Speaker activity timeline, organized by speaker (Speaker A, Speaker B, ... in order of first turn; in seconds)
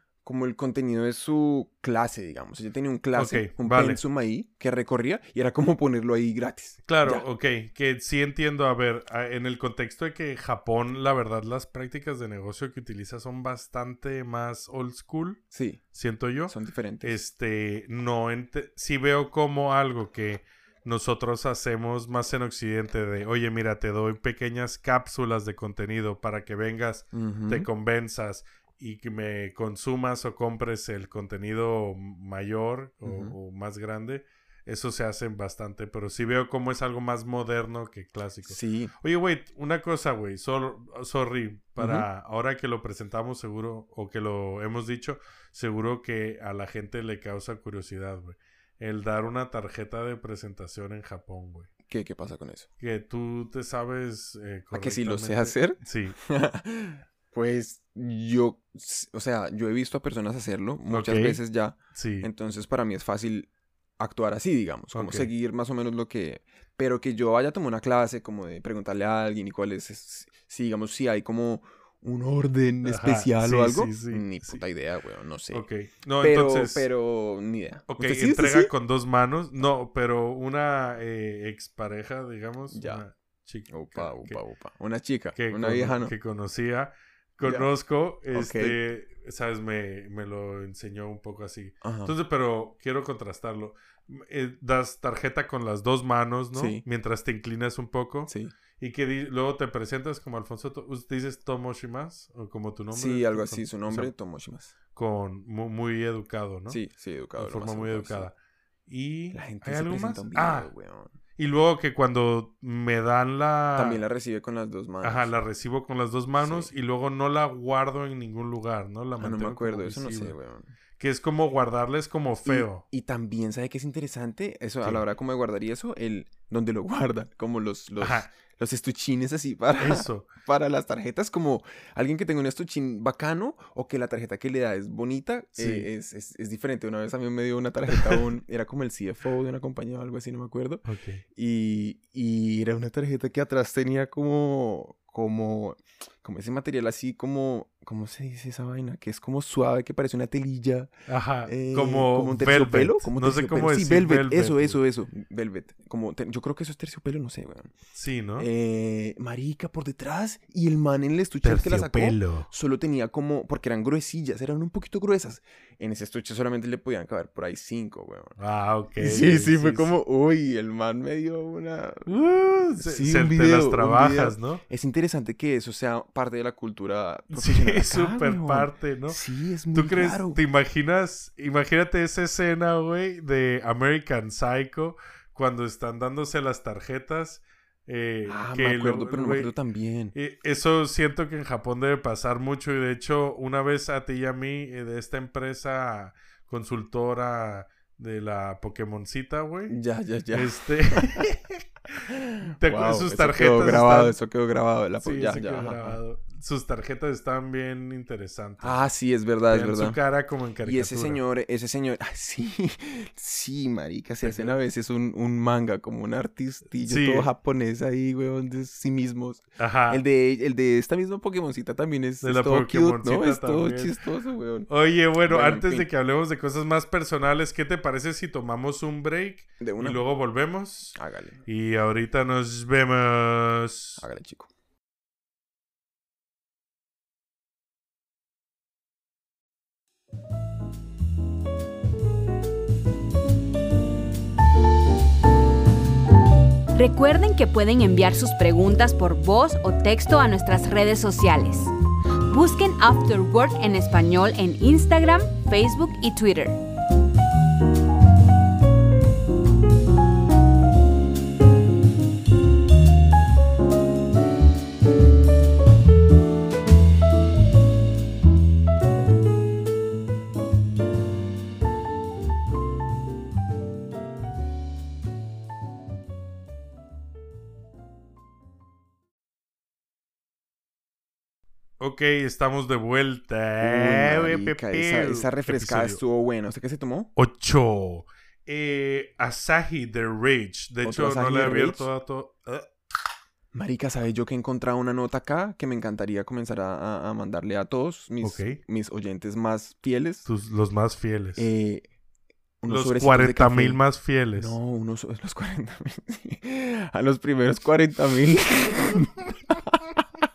Speaker A: 0.2-7.2, 15.5-15.8, 16.5-17.2, 27.1-27.7, 33.0-33.4, 38.5-38.9, 41.8-42.1, 51.9-52.7, 54.7-75.7, 76.2-78.7, 82.7-83.0, 83.7-86.1, 87.4-87.7, 88.3-88.8, 91.8-92.1, 96.5-96.8, 98.3-98.5, 102.9-104.7, 106.7-108.3, 109.3-111.2, 113.8-115.3, 116.4-116.7, 119.2-120.7, 122.5-150.9, 151.5-157.8, 158.4-168.4, 169.0-180.4, 188.3-190.1, 199.7-201.3, 202.1-206.0, 208.6-210.0, 210.7-224.7, 225.2-225.9, 229.6-230.0, 231.0-231.4, 234.0-234.5, 283.6-287.1, 290.8-291.9, 293.5-300.3, 301.4-301.9, 302.6-303.8, 304.4-310.0
Speaker B: 3.2-4.0, 6.9-15.4, 15.9-51.7, 52.8-56.2, 60.9-61.4, 61.9-62.3, 64.9-65.3, 72.8-74.6, 75.5-76.9, 77.9-84.4, 85.3-104.1, 104.9-106.8, 107.4-108.3, 108.9-110.7, 111.4-114.0, 115.0-120.4, 121.0-122.8, 128.0-128.3, 129.8-130.3, 135.6-135.9, 137.9-138.2, 140.9-141.2, 151.1-154.8, 157.9-158.5, 161.4-162.5, 168.4-169.9, 172.1-174.6, 177.3-179.2, 179.7-189.5, 190.1-199.8, 200.3-202.1, 202.6-204.2, 205.0-208.8, 209.5-211.2, 214.2-214.6, 216.8-217.3, 219.6-220.0, 222.2-223.9, 224.7-234.0, 281.8-286.0, 287.2-292.7, 298.2-298.6, 300.3-301.5, 302.7-304.5
Speaker C: 246.8-251.7, 252.3-256.6